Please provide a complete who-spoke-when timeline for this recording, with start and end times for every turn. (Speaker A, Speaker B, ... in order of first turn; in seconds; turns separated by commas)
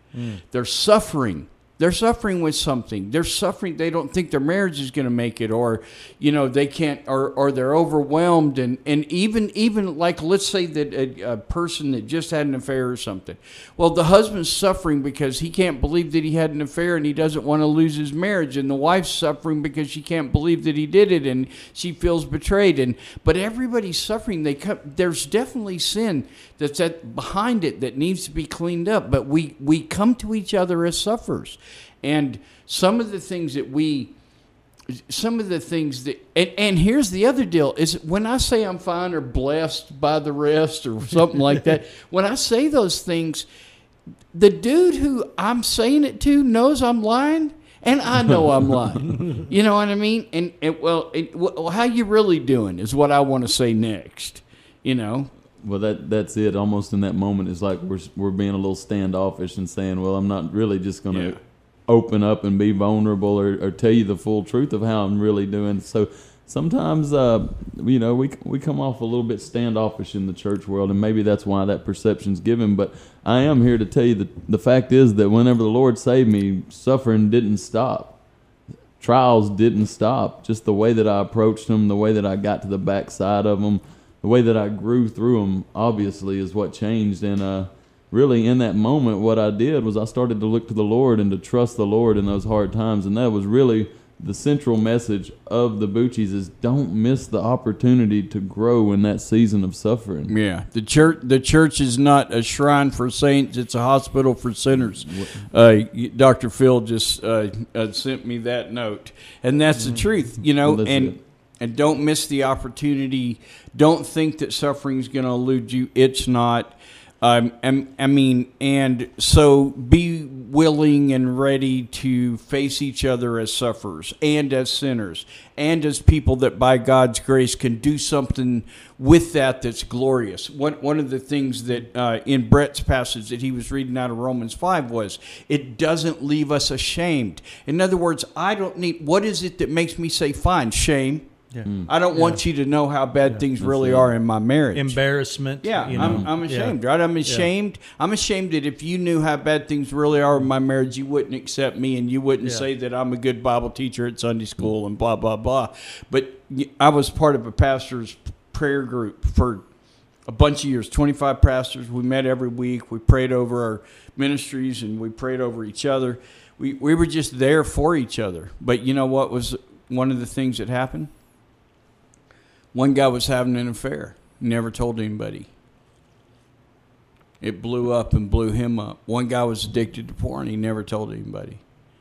Speaker A: 0.1-0.4, Speaker B: 0.5-34.1, Speaker B: 35.0-43.5, Speaker B: 44.3-55.3, Speaker C: 55.6-78.2, Speaker B: 61.1-61.4, Speaker C: 79.0-100.3, Speaker B: 100.3-141.3, Speaker C: 105.0-105.5, Speaker A: 109.8-110.1, Speaker C: 110.6-111.2, Speaker A: 141.5-142.4, Speaker C: 141.6-141.9, Speaker B: 141.9-145.0, Speaker C: 143.6-144.1, Speaker A: 144.7-146.7, Speaker B: 145.6-159.7, Speaker C: 145.9-146.3, Speaker B: 160.3-171.1, Speaker B: 172.7-175.5, Speaker B: 177.4-181.6